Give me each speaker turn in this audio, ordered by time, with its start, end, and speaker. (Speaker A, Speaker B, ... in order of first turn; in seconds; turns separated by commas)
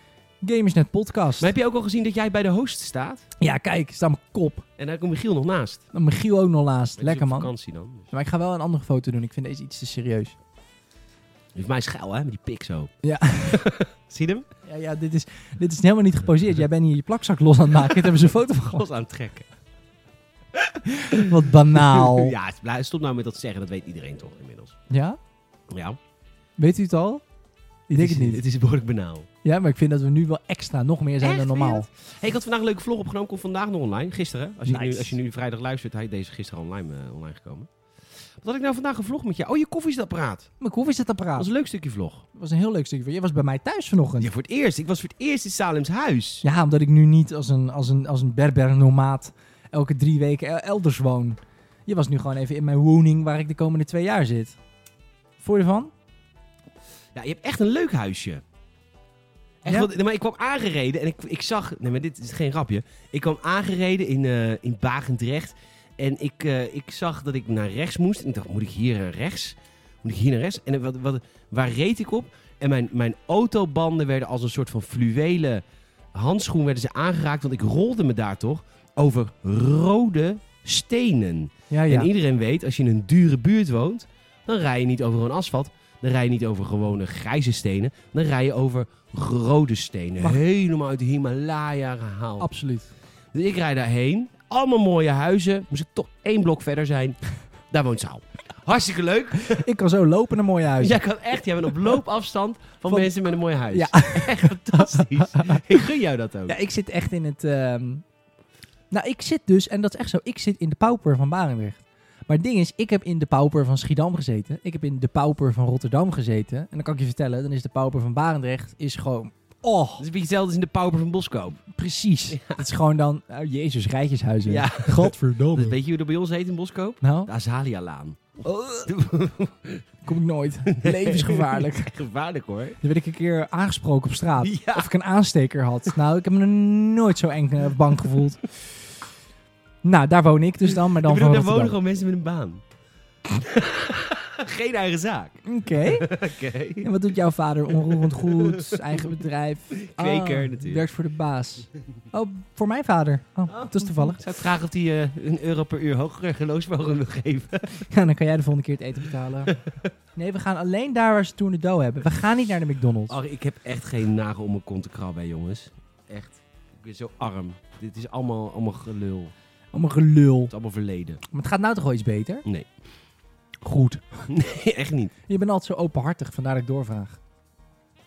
Speaker A: 0.4-1.5, Speaker B: 1.4-3.2, Speaker A: 3.4-4.7, Speaker B: 4.8-5.8, Speaker A: 5.9-7.5, Speaker B: 7.0-8.1, Speaker A: 8.1-10.4, Speaker B: 11.5-14.5, Speaker A: 13.0-13.6, Speaker A: 14.7-18.9, Speaker B: 18.7-19.5, Speaker A: 20.9-22.3, Speaker B: 21.1-24.8, Speaker A: 24.9-25.2, Speaker B: 25.7-26.0, Speaker A: 26.6-27.2, Speaker A: 27.9-28.4, Speaker B: 28.0-29.3, Speaker A: 29.4-31.9, Speaker B: 31.2-37.7, Speaker A: 34.7-35.2, Speaker B: 38.4-40.5, Speaker A: 40.6-41.5, Speaker B: 41.4-42.2, Speaker A: 42.3-44.3, Speaker B: 44.2-46.5, Speaker A: 46.4-54.6, Speaker A: 55.4-55.9, Speaker B: 57.1-58.4, Speaker B: 59.6-92.5, Speaker A: 81.7-82.1, Speaker A: 92.4-92.9, Speaker B: 93.3-97.2, Speaker B: 97.7-99.7, Speaker A: 99.4-101.0, Speaker B: 100.8-106.5, Speaker A: 103.7-105.8, Speaker A: 106.5-108.0, Speaker A: 108.9-120.0, Speaker B: 120.0-121.6, Speaker A: 121.7-125.8, Speaker B: 122.3-122.6, Speaker B: 124.5-129.8, Speaker A: 127.0-127.3, Speaker A: 128.5-128.9, Speaker A: 130.1-131.9, Speaker B: 130.7-132.8, Speaker A: 132.8-138.5, Speaker B: 134.4-134.9, Speaker A: 139.8-141.7, Speaker B: 140.9-142.6, Speaker B: 143.3-146.9, Speaker A: 145.4-146.2, Speaker A: 146.8-154.2, Speaker B: 147.7-149.2, Speaker B: 149.7-150.9, Speaker B: 153.5-157.9, Speaker A: 157.9-159.6, Speaker A: 160.2-163.2, Speaker B: 163.1-169.3, Speaker A: 169.7-170.5, Speaker B: 170.5-171.2, Speaker A: 171.3-172.5, Speaker A: 173.6-174.3, Speaker B: 174.3-175.1, Speaker A: 175.3-177.2